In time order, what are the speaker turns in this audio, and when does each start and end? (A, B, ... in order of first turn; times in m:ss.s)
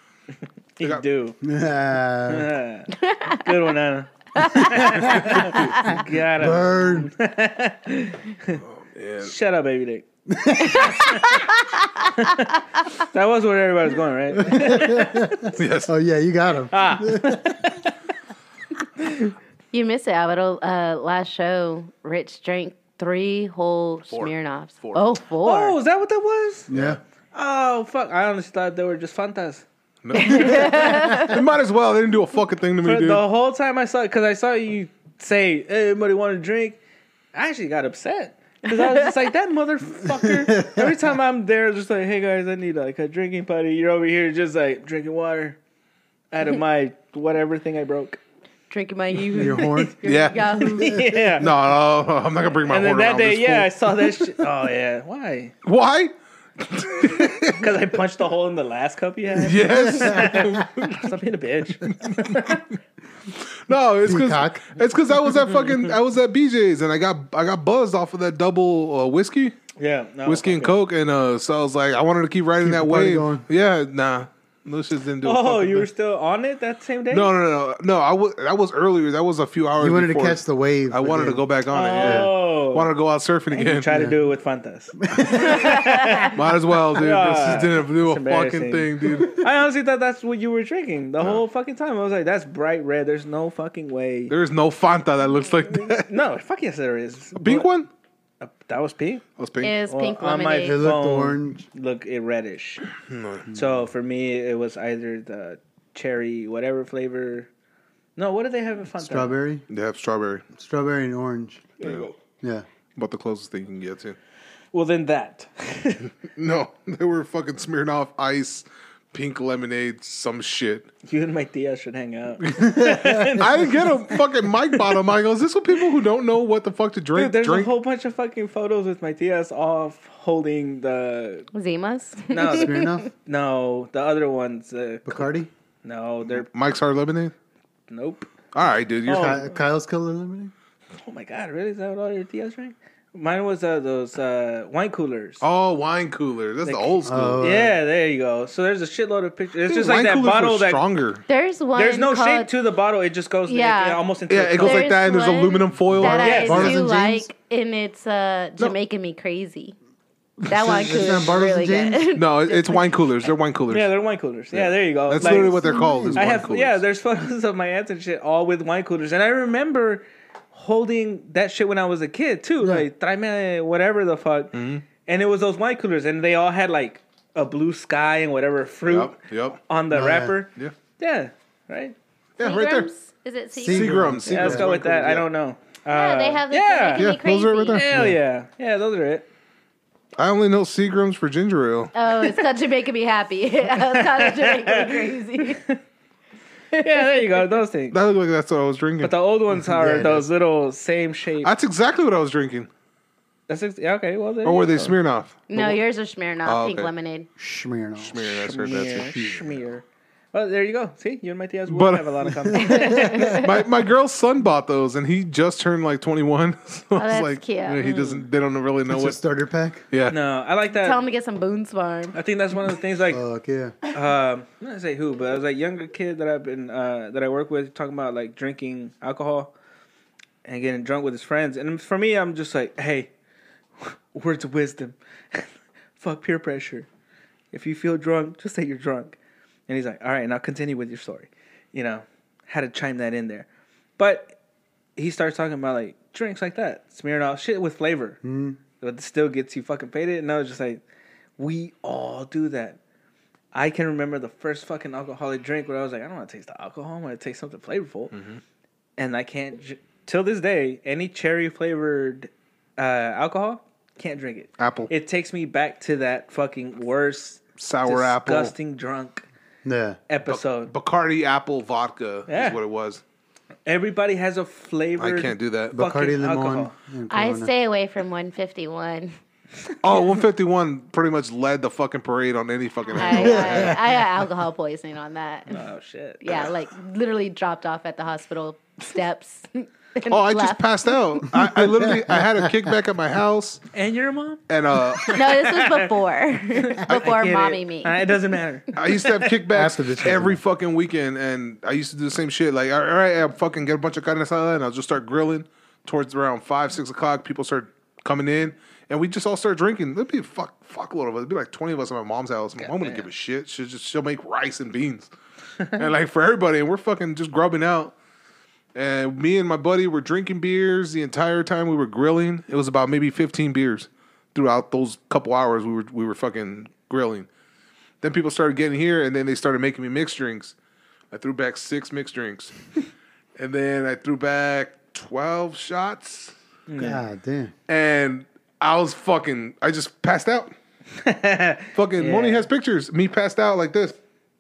0:00.8-0:01.4 A
0:01.4-0:02.5 B
0:02.3-0:08.6 A
0:03.0-0:03.5 C
0:04.4-0:06.0 C
0:04.7-0:07.1 B
0:08.6-0:09.3 D
0:09.2-0:10.1 A
0:10.3-0:11.2 B
0:10.7-0:11.2 A
0:13.0-0:15.3 A
0:14.4-0:17.6 B
0:15.5-0:15.9 D
0:16.7-0:18.0 A
0:19.7-0:25.8 C
0:24.1-0:25.0 D
0:25.4-0:26.7 A
0:26.7-0:27.0 B
0:26.7-0:27.0 D
0:27.3-0:29.6 A
0:30.0-0:33.2 D
0:30.1-0:31.4 C
0:32.8-0:36.8 A
0:37.3-0:45.6 A
0:40.2-0:40.9 B
0:46.3-0:48.2 A
0:48.7-0:51.0 C
0:49.3-0:51.3 B
0:49.5-0:49.8 A
0:50.0-0:50.6 D
0:50.6-0:51.5 A
0:51.4-0:53.7 D
0:52.7-0:55.6 A
0:55.6-0:57.7 D
0:57.4-1:02.6 A
0:59.4-1:01.1 D
0:59.9-1:00.3 B
1:01.9-1:02.5 D
1:03.7-1:09.6 D
1:04.0-1:04.8 B
1:09.8-1:10.8 A
1:10.2-1:15.9 D
1:12.6-1:13.5 B
1:15.2-1:17.3 A
1:17.1-1:24.0 D
1:19.8-1:21.4 B
1:21.7-1:22.9 A
1:22.0-1:22.3 B
1:23.5-1:26.4 A
1:23.9-1:24.2 B
1:25.0-1:25.9 B
1:25.6-1:26.3 C
1:26.3-1:29.3 D
1:27.0-1:34.4 A
1:34.3-1:36.1 D
1:35.7-1:37.7 A
1:37.4-1:37.9 D
1:38.4-1:39.2 A
1:39.4-1:39.8 D
1:39.6-1:40.8 C
1:39.9-1:42.9 A
1:40.6-1:41.7 B
1:43.1-1:43.5 D
1:43.5-1:47.5 A
1:48.2-1:49.4 A
1:49.0-1:49.6 B
1:49.7-1:50.4 D
1:50.6-1:51.6 B
1:51.8-1:52.2 A
1:53.0-1:54.2 D
1:54.7-1:56.1 A
1:56.3-2:00.9 D
2:01.0-2:04.2 A
2:02.6-2:03.3 B
2:03.3-2:07.7 D
2:07.2-2:11.5 A
2:11.5-2:13.1 C
2:12.3-2:15.3 A
2:12.5-2:13.1 B
2:15.1-2:15.5 B
2:15.8-2:16.5 A
2:16.4-2:17.3 D
2:17.9-2:18.3 A
2:18.5-2:19.4 D
2:19.0-2:19.5 A
2:19.1-2:20.5 B
2:21.0-2:25.4 A
2:25.4-2:27.6 D
2:26.6-2:30.8 A
2:27.0-2:27.8 B
2:29.7-2:31.2 D
2:31.3-2:32.5 C
2:31.8-2:34.9 A
2:33.5-2:34.0 C
2:34.3-2:36.8 D
2:34.6-2:39.8 C
2:35.9-2:37.3 B
2:36.1-2:36.7 A
2:40.5-2:42.9 C
2:40.5-2:40.9 D
2:40.5-2:42.1 B
2:42.2-2:43.9 D
2:43.7-3:02.0 A
2:44.5-2:46.8 D
2:45.2-2:46.2 B
2:54.5-2:54.8 D
2:58.9-2:59.6 D
2:59.9-3:00.4 B
3:02.4-3:02.9 D
3:02.4-3:04.1 C
3:03.6-3:04.7 B
3:03.6-3:05.3 D
3:04.2-3:07.1 A
3:05.9-3:07.8 C
3:07.0-3:07.9 D
3:07.7-3:09.3 A
3:07.9-3:08.2 B
3:10.2-3:11.9 D
3:11.9-3:15.6 C
3:13.8-3:15.8 A
3:16.8-3:18.0 A
3:17.9-3:19.2 D
3:19.0-3:21.5 A
3:19.6-3:20.3 B
3:21.4-3:22.7 D
3:23.5-3:25.0 A
3:24.4-3:25.8 D
3:25.5-3:27.3 C
3:26.4-3:26.9 D
3:27.4-3:29.6 B
3:28.0-3:29.3 D
3:28.4-3:33.3 A
3:31.7-3:32.4 D
3:32.5-3:33.4 B
3:32.6-3:33.6 C
3:33.1-3:39.2 D
3:37.0-3:37.8 C
3:37.8-3:38.3 A
3:38.9-3:39.8 B
3:39.9-3:40.2 D
3:40.1-3:41.0 A
3:40.8-3:42.2 C
3:42.1-3:43.2 A
3:43.1-3:43.8 B
3:43.9-3:49.5 A
3:50.4-3:53.1 A
3:53.8-3:56.9 A
3:57.5-3:59.2 A
3:59.7-4:03.5 A
4:04.0-4:04.4 A
4:05.0-4:08.2 A
4:08.2-4:08.6 B
4:08.8-4:10.8 A
4:11.4-4:12.8 A
4:13.5-4:18.2 A
4:19.0-4:29.3 A
4:24.6-4:24.9 D
4:27.6-4:28.5 D
4:29.6-4:30.0 B
4:30.1-4:30.7 A
4:30.3-4:33.0 D
4:32.3-4:32.6 A
4:33.7-4:36.7 A
4:35.0-4:35.8 D
4:35.7-4:37.5 B
4:37.1-4:39.2 C
4:39.8-4:43.8 D
4:42.9-4:45.6 C
4:43.2-4:43.7 B
4:45.5-4:46.2 A
4:46.2-4:51.2 C
4:50.1-4:53.6 D
4:51.4-4:52.7 B
4:53.7-4:55.9 A
4:54.5-4:55.2 D
4:55.1-4:58.2 C
4:56.6-4:59.3 A
4:58.8-5:15.1 D
4:59.5-5:00.4 B
5:12.6-5:13.1 A
5:15.7-5:17.9 D
5:18.8-5:27.3 D
5:28.0-5:30.5 D
5:31.1-5:32.7 D
5:33.4-5:36.3 D
5:36.7-5:37.0 A
5:36.8-5:37.5 B
5:37.7-5:40.5 D
5:41.0-5:42.5 A
5:41.8-5:44.0 D